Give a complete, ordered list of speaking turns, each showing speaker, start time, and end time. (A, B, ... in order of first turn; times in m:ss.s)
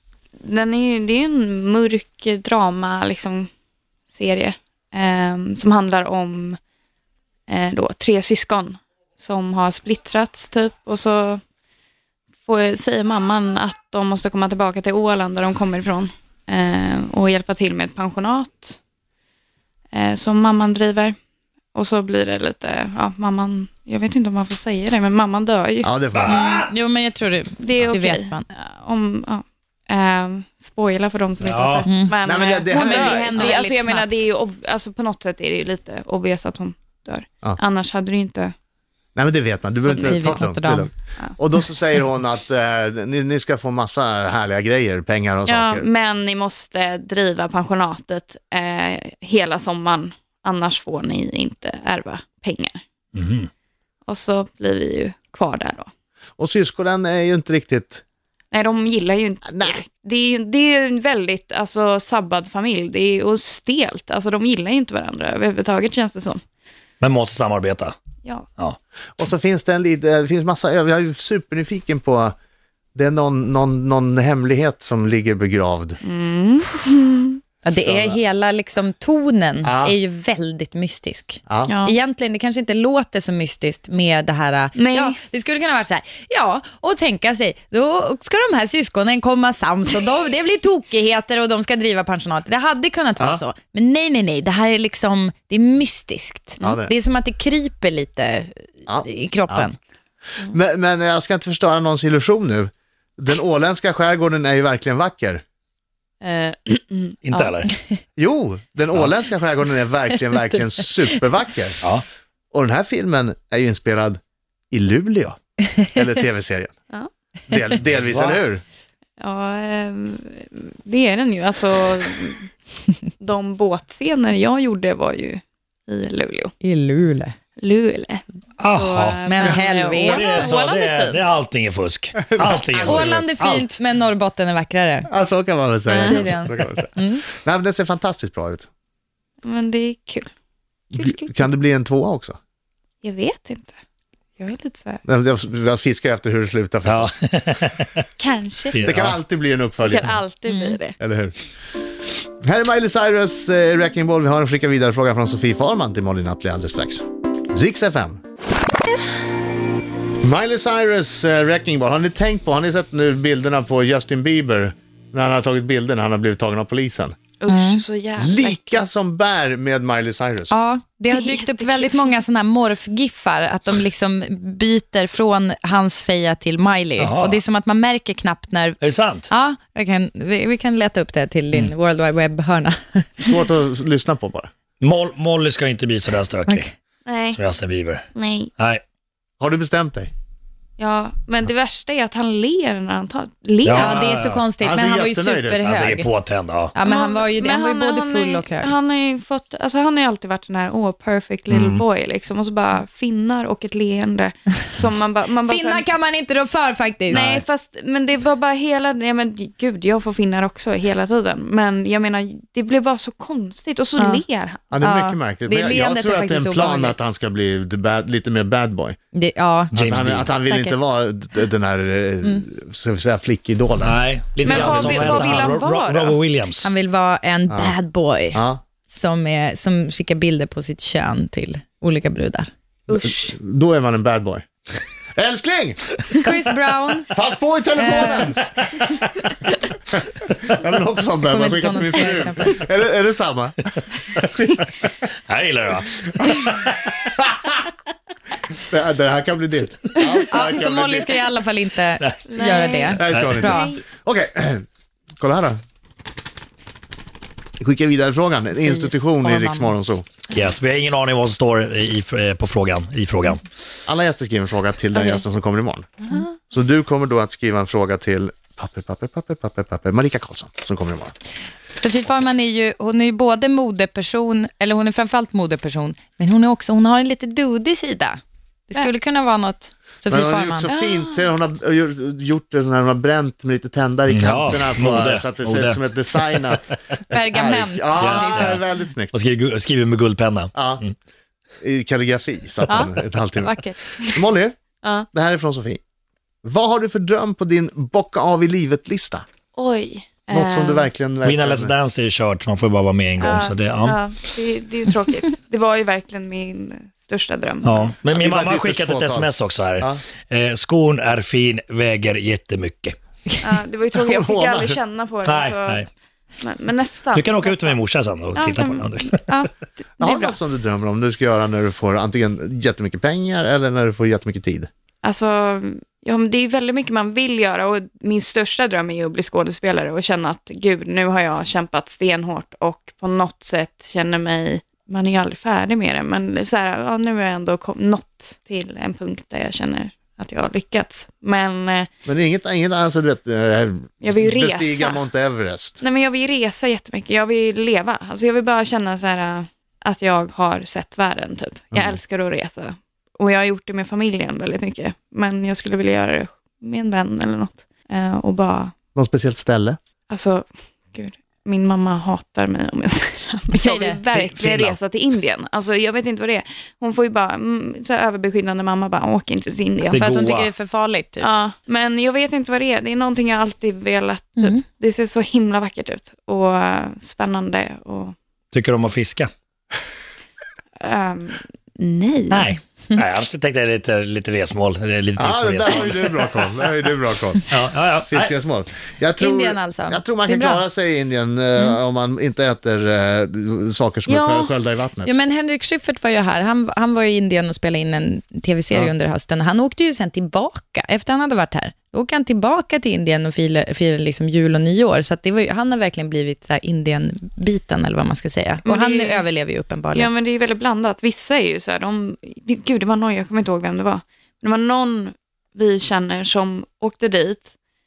0:00.4-0:03.5 A
0:04.1-0:06.6 A
0:07.5-0:11.4 A
0:12.4-0:18.8 A
0:19.9-0:21.2 A
0:21.7-0:25.9 A
0:25.8-0:26.5 B
0:26.1-0:26.7 C
0:26.3-0:28.4 D
0:27.6-0:38.5 A
0:31.4-0:31.9 C
0:31.8-0:34.2 D
0:32.2-0:33.5 B
0:39.1-0:45.9 B
0:39.9-0:40.9 D
0:40.0-0:40.3 A
0:45.5-0:52.8 A
0:53.1-0:53.5 C
0:54.1-0:55.9 A
0:56.4-0:58.0 B
0:58.5-1:06.4 A
0:59.5-0:59.8 B
1:07.0-1:07.9 C
1:09.2-1:12.3 B
1:12.9-1:16.0 B
1:16.0-1:17.4 A
1:17.6-1:39.8 D
1:17.7-1:18.2 B
1:19.6-1:20.0 B
1:21.5-1:21.7 B
1:21.7-1:21.9 A
1:24.8-1:25.2 A
1:36.6-1:36.9 B
1:38.8-1:39.7 B
1:40.5-1:45.4 B
1:46.2-1:47.2 A
1:47.2-1:47.7 C
1:48.2-1:51.8 B
1:52.5-1:54.2 B
1:54.7-1:56.7 B
1:57.5-1:58.6 B
1:57.8-1:58.4 C
1:59.2-2:02.5 A
2:03.2-2:06.5 A
2:06.6-2:07.4 D
2:07.6-2:11.3 A
2:08.6-2:09.2 C
2:09.2-2:10.4 D
2:09.8-2:13.8 C
2:12.3-2:13.1 B
2:12.8-2:15.1 D
2:15.1-2:18.7 B
2:15.9-2:17.2 D
2:15.9-2:16.2 A
2:19.4-2:20.3 A
2:20.9-2:21.4 A
2:20.9-2:22.4 B
2:23.0-2:23.7 A
2:24.4-2:25.0 A
2:25.0-2:27.2 B
2:26.8-2:28.0 C
2:28.2-2:28.9 A
2:28.7-2:29.2 C
2:28.8-2:30.1 B
2:29.8-2:31.0 A
2:30.5-2:30.8 D
2:31.0-2:31.3 B
2:32.4-2:38.2 B
2:40.2-2:47.2 B
2:47.4-2:48.8 A
2:47.5-2:47.8 D
2:48.2-2:50.6 B
2:50.5-2:58.8 D
2:51.1-2:51.9 A
2:57.0-2:57.4 C
2:58.8-2:59.3 C
2:59.3-3:03.1 D
3:03.2-3:04.5 B
3:04.8-3:06.7 C
3:07.0-3:07.4 A
3:07.3-3:08.8 C
3:08.1-3:08.5 A
3:09.4-3:10.1 B
3:10.8-3:14.0 A
3:13.6-3:14.4 C
3:13.7-3:16.1 D
3:14.6-3:15.7 B
3:15.6-3:16.7 C
3:16.7-3:18.7 D
3:16.8-3:25.9 A
3:21.5-3:21.8 C
3:25.4-3:27.3 D
3:27.1-3:27.4 C
3:27.1-3:34.7 A
3:34.0-3:34.2 D
3:34.7-3:39.0 B
3:34.8-3:37.0 D
3:39.1-3:39.8 D
3:39.7-3:40.3 C
3:39.8-3:44.0 B
3:40.3-3:40.8 D
3:43.8-3:46.7 C
3:44.4-3:46.2 A
3:44.5-3:45.4 B
3:46.6-3:52.5 D
3:47.5-3:47.7 B
3:48.3-3:48.6 B
3:52.9-3:53.3 A
3:53.0-3:54.4 B
3:55.1-3:55.8 B
3:56.1-3:57.1 D
3:57.1-3:58.6 B
3:57.8-3:58.4 D
4:00.2-4:03.6 B
4:01.2-4:02.6 D
4:04.2-4:04.7 B
4:05.3-4:07.1 C
4:08.7-4:11.2 B
4:10.3-4:13.7 D
4:12.3-4:13.8 A
4:12.9-4:14.6 B
4:13.1-4:13.5 C
4:15.2-4:15.6 B
4:17.6-4:20.0 B
4:18.6-4:19.8 D
4:20.3-4:23.4 C
4:23.8-4:25.9 B
4:25.0-4:25.2 A
4:26.5-4:31.1 B
4:31.8-4:40.7 D
4:40.1-4:49.1 B
4:40.7-4:41.3 A
4:44.1-4:46.8 C
4:47.1-4:48.5 D
4:48.0-4:50.9 C
4:50.5-4:50.8 B
4:51.6-4:54.6 B
4:52.7-4:53.8 D
4:55.1-4:55.8 B
4:56.4-4:59.2 B
4:59.6-5:00.9 A
5:00.3-5:01.7 B
5:01.2-5:04.0 C
5:03.2-5:07.9 A
5:07.6-5:13.0 C
5:08.1-5:10.0 B
5:13.4-5:15.8 A
5:14.0-5:14.8 B
5:15.2-5:15.9 C
5:16.4-5:17.8 A
5:17.1-5:19.4 C
5:18.3-5:20.4 A
5:20.0-5:24.7 B
5:25.0-5:41.9 A
5:42.0-5:45.8 B
5:44.0-5:45.0 A
5:45.8-5:58.7 A
5:51.7-5:52.0 B
5:58.9-5:59.8 B
6:00.1-6:10.0 A
6:03.5-6:04.0 D
6:04.1-6:04.8 C
6:09.9-6:11.3 D
6:09.9-6:10.5 C
6:11.2-6:18.1 A
6:14.4-6:14.6 D
6:18.5-6:19.3 C
6:20.8-6:22.5 A
6:22.3-6:26.4 C
6:25.2-6:27.4 B
6:27.5-6:28.3 C
6:28.1-6:35.2 B
6:29.2-6:30.6 D
6:34.1-6:34.5 A
6:35.0-6:50.1 D
6:48.6-6:49.2 A
6:49.9-6:57.5 A